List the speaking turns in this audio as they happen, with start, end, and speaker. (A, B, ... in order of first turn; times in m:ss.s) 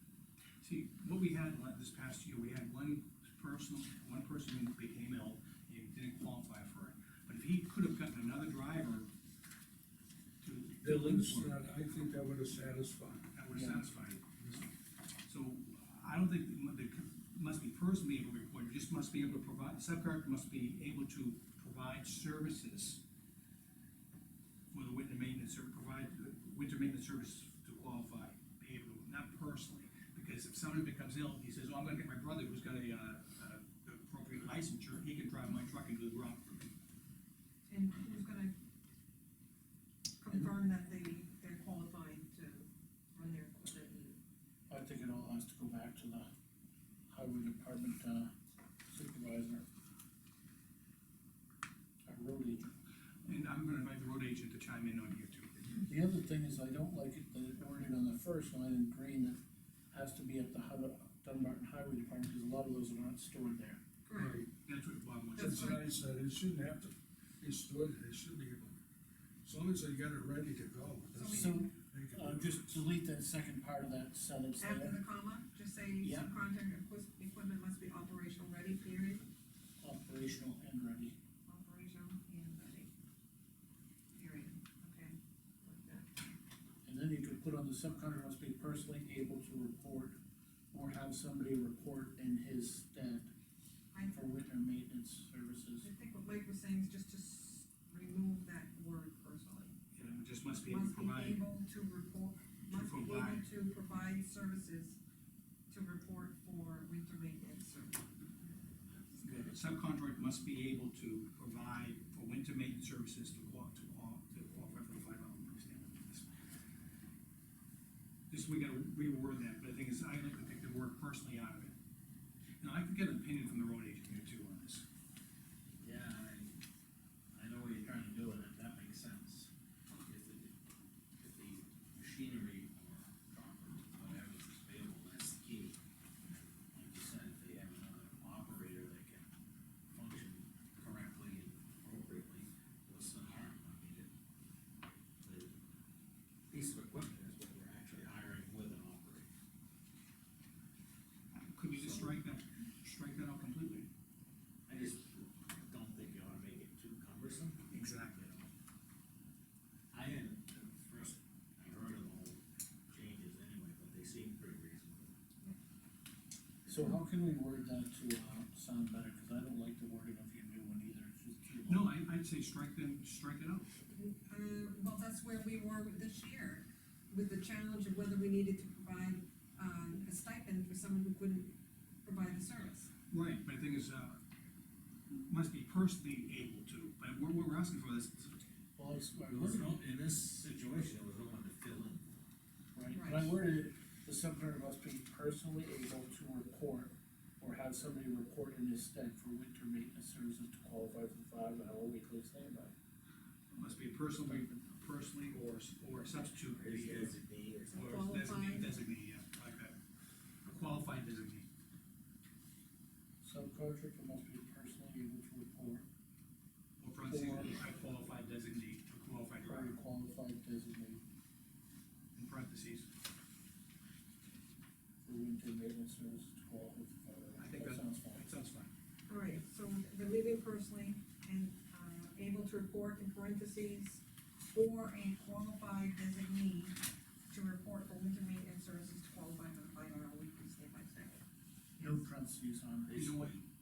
0:00.6-0:09.1 A
0:10.4-0:11.6 A
0:10.8-0:13.3 B
0:13.3-0:14.3 A
0:13.5-0:13.8 C
0:15.2-0:23.0 A
0:24.7-0:36.7 A
0:37.7-0:38.5 D
0:40.2-0:44.2 D
0:44.7-0:46.3 C
0:47.1-0:48.3 C
0:48.9-0:49.6 C
0:52.1-0:52.7 C
0:53.2-0:55.8 A
0:55.8-0:59.4 C
0:59.9-1:03.8 C
1:04.1-1:04.4 D
1:04.2-1:04.5 B
1:04.6-1:05.8 A
1:05.4-1:08.8 B
1:09.4-1:12.8 B
1:11.2-1:11.8 D
1:11.3-1:15.0 C
1:14.6-1:19.3 D
1:16.0-1:16.3 C
1:19.8-1:21.2 C
1:21.5-1:22.9 D
1:24.2-1:26.1 D
1:26.8-1:30.2 C
1:30.7-1:33.3 C
1:34.1-1:35.9 C
1:35.8-1:39.9 D
1:39.9-1:41.4 A
1:40.6-1:45.0 D
1:42.7-1:43.5 A
1:45.7-1:48.5 D
1:49.2-1:56.3 A
1:58.3-2:01.8 A
2:02.6-2:04.8 A
2:05.8-2:06.6 E
2:07.3-2:10.6 E
2:11.2-2:19.3 E
2:19.9-2:24.1 E
2:25.2-2:25.5 E
2:26.5-2:29.3 E
2:31.4-2:33.9 A
2:31.7-2:32.2 E
2:34.7-2:38.5 E
2:37.7-2:38.2 A
2:39.9-2:45.2 E
2:46.7-2:52.0 C
2:51.6-2:53.7 A
2:53.9-3:02.9 D
3:03.1-3:04.2 A
3:05.1-3:08.4 A
3:08.8-3:09.8 C
3:09.3-3:12.1 E
3:12.8-3:22.7 C
3:12.9-3:13.4 D
3:23.5-3:27.2 A
3:24.1-3:24.7 C
3:26.5-3:28.0 E
3:27.7-3:29.8 A
3:27.7-3:28.8 D
3:30.4-3:31.5 A
3:33.2-3:35.9 C
3:36.8-3:39.8 A
3:37.0-3:37.6 C
3:39.4-3:41.0 C
3:42.2-3:42.9 A
3:45.0-3:48.2 C
3:47.4-3:48.7 A
3:49.1-3:56.8 D
3:57.3-4:01.2 D
4:01.8-4:03.0 C
4:02.9-4:03.5 E
4:02.9-4:03.4 A